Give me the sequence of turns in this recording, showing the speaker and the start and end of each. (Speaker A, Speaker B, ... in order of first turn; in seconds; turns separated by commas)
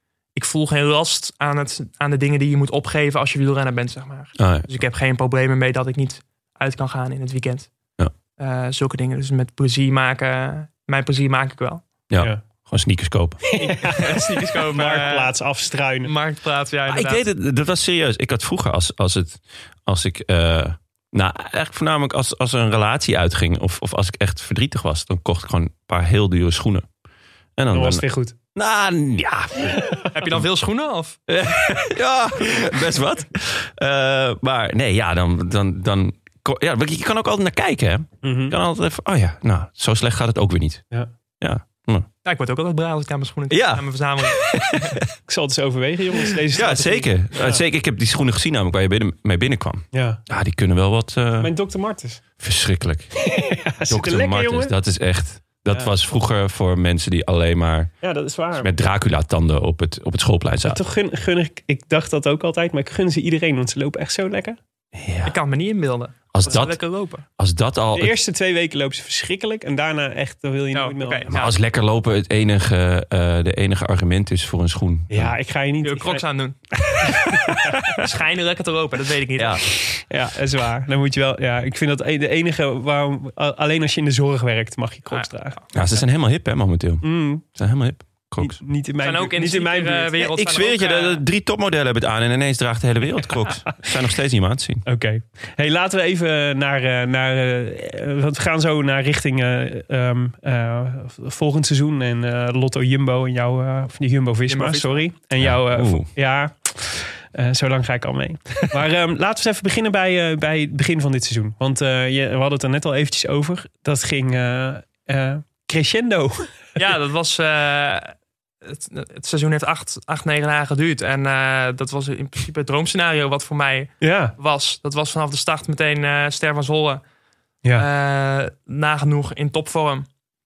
Speaker A: 0.3-7.7, Speaker B: 4.4-4.7, Speaker A: 8.4-11.8, Speaker B: 12.1-13.5, Speaker C: 13.5-16.1, Speaker A: 13.5-15.4, Speaker A: 16.0-17.2, Speaker B: 16.9-26.8, Speaker B: 27.6-30.3, Speaker C: 27.7-28.3, Speaker A: 30.1-31.2, Speaker B: 31.3-40.8, Speaker C: 38.2-38.5, Speaker B: 41.4-42.1, Speaker A: 42.2-45.0, Speaker B: 43.5-44.8, Speaker C: 45.3-47.6, Speaker B: 46.5-51.5, Speaker C: 49.9-50.2, Speaker C: 51.4-52.2, Speaker B: 52.4-57.9, Speaker C: 53.2-54.7, Speaker C: 58.0-58.7, Speaker B: 58.6-60.8, Speaker C: 60.6-64.6, Speaker B: 64.9-65.3, Speaker A: 65.2-67.2, Speaker B: 66.3-68.2, Speaker C: 67.9-71.3, Speaker A: 70.7-71.5, Speaker B: 71.3-75.3, Speaker C: 75.1-76.2, Speaker A: 75.8-77.3, Speaker A: 77.9-79.8, Speaker B: 79.4-79.6, Speaker C: 80.0-85.6, Speaker A: 85.1-85.7, Speaker B: 85.7-88.6, Speaker C: 87.0-87.4, Speaker C: 88.4-90.2, Speaker A: 89.0-91.2, Speaker B: 90.2-94.8, Speaker C: 94.8-116.7, Speaker A: 104.5-105.1, Speaker B: 105.4-106.1, Speaker A: 116.7-127.0, Speaker C: 124.0-124.3, Speaker A: 127.7-130.1